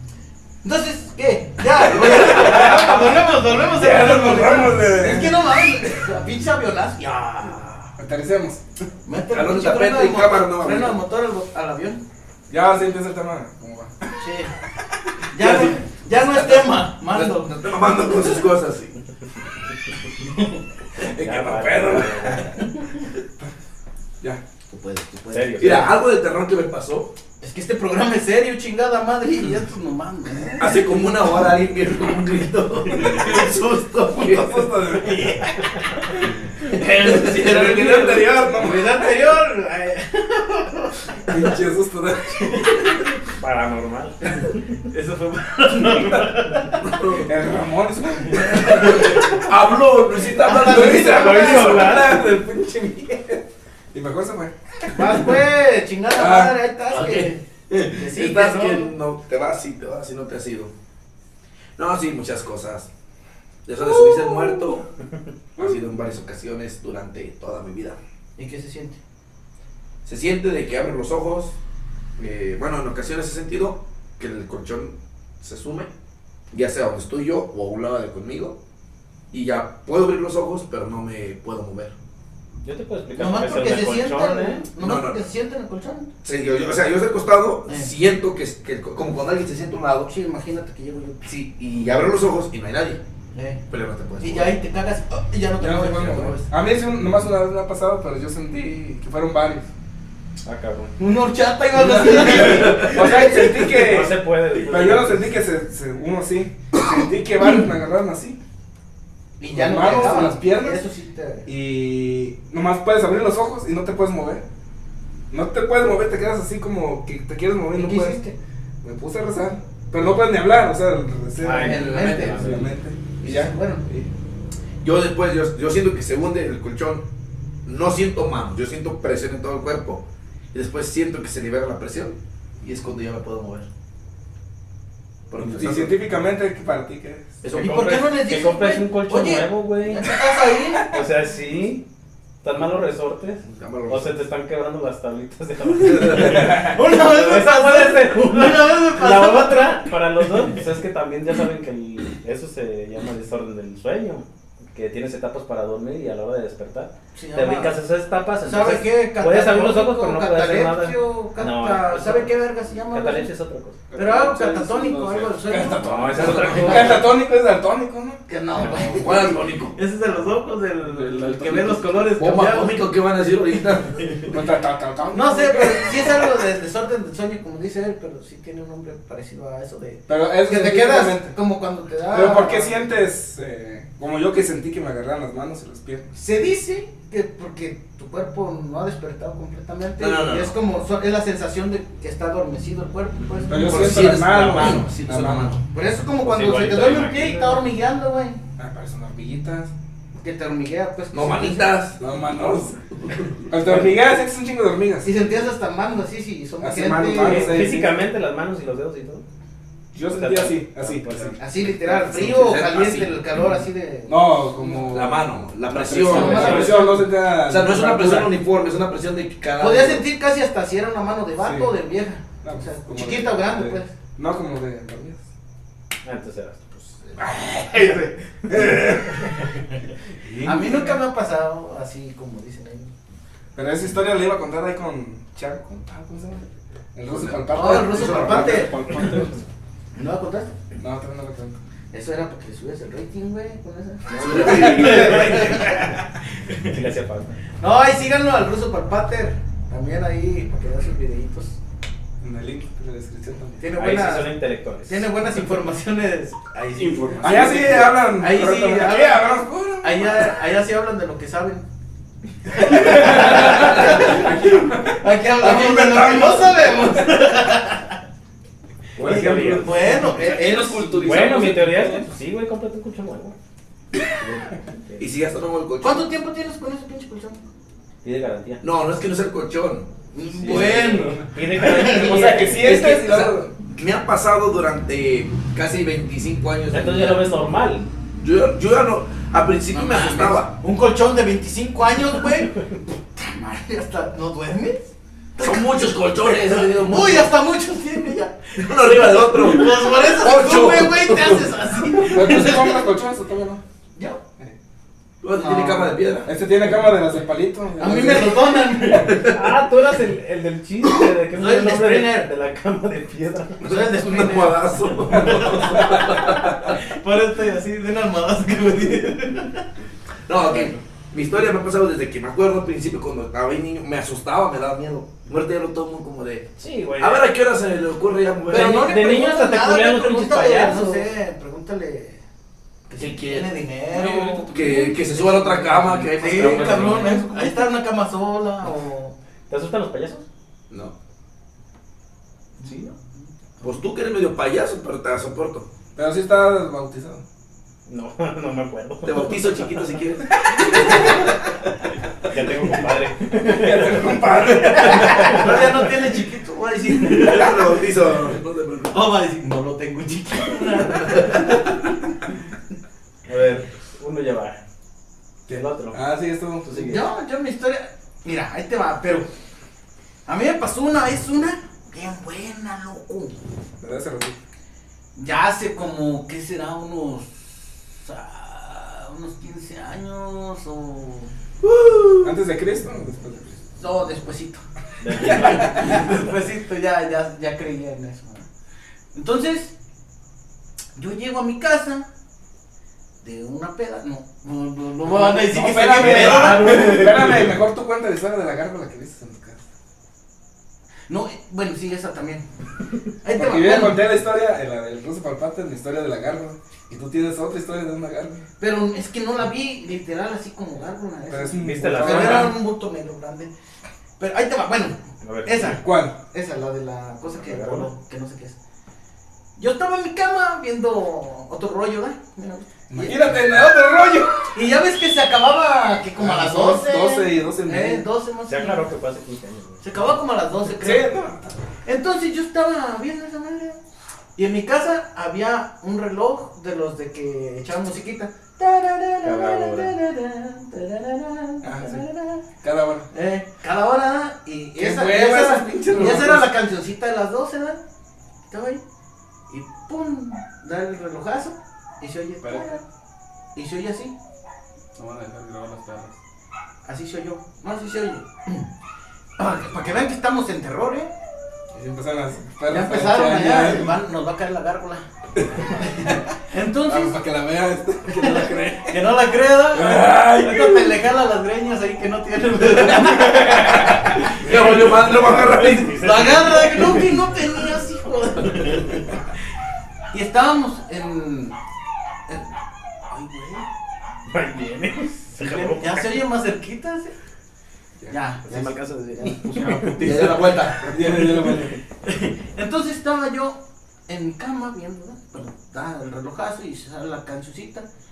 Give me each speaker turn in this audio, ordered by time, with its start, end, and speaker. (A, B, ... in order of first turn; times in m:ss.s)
0:00.6-0:07.9 A
0:02.1-0:05.3 B
0:08.0-0:08.6 B
0:09.0-0:12.0 A
0:09.3-0:11.0 C
0:12.5-0:14.1 B
0:14.2-0:14.5 A
0:15.3-0:17.5 A
0:15.4-0:19.0 C
0:20.2-0:20.6 A
0:21.0-0:22.3 C
0:21.0-0:22.2 B
0:21.0-0:22.6 D
0:24.7-0:25.9 A
0:25.3-0:26.0 D
0:25.6-0:27.1 C
0:27.4-0:30.8 A
0:30.6-0:34.7 C
0:32.9-0:33.2 B
0:34.1-0:35.4 B
0:35.0-0:41.5 A
0:36.2-0:38.3 C
0:37.2-0:39.0 B
0:41.3-0:42.9 B
0:42.4-0:42.8 A
0:43.3-0:44.8 D
0:44.4-0:47.0 A
0:46.7-0:47.4 C
0:47.2-0:49.3 B
0:48.3-0:52.2 C
0:48.6-0:49.4 A
0:50.3-0:52.0 A
0:50.5-0:53.4 B
0:50.7-0:52.2 D
0:53.9-0:54.5 B
0:54.9-0:58.9 A
0:56.2-0:56.5 B
0:56.9-1:00.7 C
1:01.8-1:02.9 C
1:03.6-1:04.8 C
1:03.8-1:04.6 B
1:05.6-1:05.9 B
1:05.6-1:08.0 C
1:08.4-1:09.0 A
1:10.0-1:11.6 C
1:12.2-1:15.9 C
1:16.5-1:18.6 C
1:19.3-1:21.9 C
1:22.6-1:24.7 D
1:23.1-1:26.1 A
1:24.8-1:25.2 C
1:26.2-1:30.1 C
1:30.1-1:31.2 A
1:31.2-1:33.0 C
1:33.3-1:33.6 A
1:33.7-1:34.6 C
1:34.2-1:36.4 A
1:35.6-1:39.7 B
1:36.0-1:36.4 C
1:40.4-1:40.9 D
1:41.0-1:43.6 A
1:41.8-1:48.4 B
1:42.0-1:43.2 C
1:43.6-1:45.3 D
1:49.4-1:51.5 A
1:49.4-1:50.8 B
1:51.4-1:54.4 B
1:55.3-1:58.2 B
1:57.7-1:58.4 A
1:58.8-2:04.1 B
2:01.4-2:02.7 D
2:01.5-2:02.5 A
2:01.7-2:02.3 C
2:03.2-2:03.8 A
2:04.8-2:07.0 C
2:07.6-2:13.7 C
2:15.3-2:16.0 C
2:15.4-2:17.4 B
2:17.4-2:18.1 C
2:17.5-2:20.9 A
2:17.6-2:20.2 D
2:20.8-2:21.8 D
2:22.4-2:43.8 D
2:23.4-2:24.1 C
2:25.8-2:26.6 C
2:26.0-2:29.8 A
2:37.1-2:37.8 A
2:38.4-2:43.3 A
2:43.9-2:45.8 E
2:43.9-2:47.0 A
2:45.5-2:48.2 B
2:45.8-2:47.0 D
2:46.1-2:47.0 C
2:48.3-2:52.9 A
2:48.6-2:49.0 D
2:48.9-2:49.8 C
2:50.8-2:51.9 E
2:52.1-2:54.3 C
2:54.3-2:56.0 B
2:55.1-3:02.8 A
3:00.1-3:01.3 B
3:02.1-3:06.1 B
3:06.1-3:14.1 A
3:10.0-3:10.6 C
3:13.5-3:15.6 B
3:13.5-3:15.6 C
3:15.7-3:18.4 A
3:16.2-3:17.7 D
3:18.6-3:19.7 B
3:20.2-3:21.7 A
3:21.1-3:23.4 C
3:22.0-3:22.8 B
3:23.4-3:25.3 B
3:25.0-3:27.7 A
3:26.6-3:28.0 B
3:27.1-3:29.2 D
3:29.9-3:31.6 B
3:30.0-3:31.4 D
3:31.4-3:34.8 A
3:31.9-3:33.2 C
3:34.1-3:38.4 B
3:34.8-3:40.0 C
3:35.9-3:37.0 A
3:36.1-3:36.8 D
3:39.6-3:43.9 A
3:41.4-3:41.7 B
3:42.4-3:45.2 B
3:46.0-3:47.1 D
3:47.2-3:48.1 A
3:48.5-3:49.1 D
3:48.5-3:49.3 B
3:50.2-3:51.0 B
3:50.4-3:52.9 A
3:53.5-3:59.4 B
3:57.1-3:58.8 C
3:57.5-3:59.2 A
3:59.9-4:00.5 A
4:00.8-4:01.6 B
4:01.9-4:06.8 A
4:04.1-4:06.0 D
4:04.1-4:05.6 C
4:04.8-4:05.3 B
4:06.5-4:07.4 D
4:07.6-4:11.6 A
4:12.2-4:13.7 B
4:13.6-4:21.6 A
4:13.7-4:15.2 D
4:16.7-4:17.9 E
4:17.2-4:20.4 B
4:22.5-4:28.0 A
4:22.6-4:27.2 B
4:23.2-4:24.1 E
4:29.0-4:30.0 B
4:29.0-4:30.0 D
4:29.0-4:31.3 A
4:29.9-4:32.1 E
4:31.0-4:33.4 D
4:34.1-4:35.0 D
4:35.0-4:36.1 C
4:35.8-4:37.4 A
4:38.0-4:38.6 D
4:38.6-4:39.9 C
4:40.1-4:42.5 A
4:40.3-4:42.8 D
4:40.5-4:41.2 C
4:40.6-4:43.5 B
4:42.5-4:47.2 C
4:46.7-4:47.8 D
4:48.2-4:50.5 C
4:49.7-4:52.6 A
4:53.1-5:02.9 A
4:55.4-4:57.3 C
4:58.6-5:02.0 C
5:02.1-5:03.6 B
5:05.2-5:06.3 C
5:05.3-5:06.0 A
5:06.2-5:09.1 B
5:07.8-5:09.3 A
5:08.9-5:09.5 C
5:09.2-5:13.6 D
5:11.3-5:12.3 A
5:13.6-5:16.7 C
5:13.6-5:19.6 A
5:15.3-5:15.9 B
5:20.3-5:28.9 C
5:26.6-5:27.3 D
5:28.5-5:32.2 A
5:28.5-5:31.1 D
5:32.9-5:39.1 A
5:33.0-5:33.5 C
5:33.9-5:35.2 E
5:34.5-5:37.3 C
5:35.5-5:37.5 D
5:39.5-5:40.2 D
5:42.6-5:43.0 A
5:42.6-5:42.9 D
5:43.6-5:45.7 C
5:45.9-5:47.2 B
5:47.9-5:50.0 D
5:49.0-5:51.5 C
5:50.7-5:51.2 D
5:52.2-5:55.9 D
5:53.4-5:55.5 B
5:54.6-5:57.9 A
5:57.0-5:59.0 C
5:58.9-6:01.9 A
6:01.0-6:01.5 C
6:03.2-6:04.6 D
6:05.5-6:06.0 D
6:05.5-6:06.8 B
6:06.6-6:07.1 D
6:06.7-6:09.3 A
6:10.3-6:13.4 A
6:13.8-6:14.4 B
6:15.1-6:21.3 A
6:21.6-6:22.3 C
6:22.2-6:23.6 B
6:23.8-6:28.5 A
6:25.0-6:26.5 D
6:29.1-6:29.7 A
6:31.0-6:32.1 A
6:33.2-6:37.4 A
6:35.1-6:39.6 B
6:35.8-6:37.2 D
6:41.1-6:42.4 A
6:43.2-6:44.0 A
6:43.3-6:48.5 B
6:48.6-6:53.5 A
6:51.3-6:52.6 B
6:51.6-6:52.6 D
6:54.2-6:58.6 A
6:55.2-6:55.8 D
6:55.6-6:56.1 B
6:57.3-6:57.9 D
6:59.6-7:03.3 A
7:02.9-7:04.5 B
7:04.5-7:08.9 A
7:06.2-7:08.0 B
7:08.5-7:10.1 D
7:09.8-7:11.2 A
7:10.6-7:11.7 B
7:11.8-7:13.8 A
7:14.4-7:22.4 A
7:19.2-7:19.9 D
7:21.6-7:22.0 B
7:22.6-7:23.1 B
7:23.1-7:27.8 A
7:24.8-7:26.5 B
7:25.8-7:26.3 E
7:28.5-7:28.8 A
7:29.5-7:32.8 A
7:33.5-7:34.1 A
7:35.0-7:36.2 E
7:36.8-7:38.7 A
7:39.4-7:41.1 A
7:41.7-7:44.0 B
7:42.7-7:45.0 A
7:45.6-7:46.3 B
7:45.8-7:47.2 A
7:46.8-7:49.0 B
7:48.1-7:59.2 A
7:49.7-7:50.8 B
7:52.6-7:56.1 C
7:54.4-7:57.2 D
8:00.1-8:01.6 A
8:03.1-8:03.7 A
8:04.3-8:06.2 D
8:05.4-8:07.1 A
8:08.1-8:11.5 A
8:08.4-8:10.3 D
8:10.0-8:11.0 C
8:10.8-8:11.8 B
8:11.3-8:11.6 D
8:12.0-8:13.6 A
8:14.1-8:17.9 A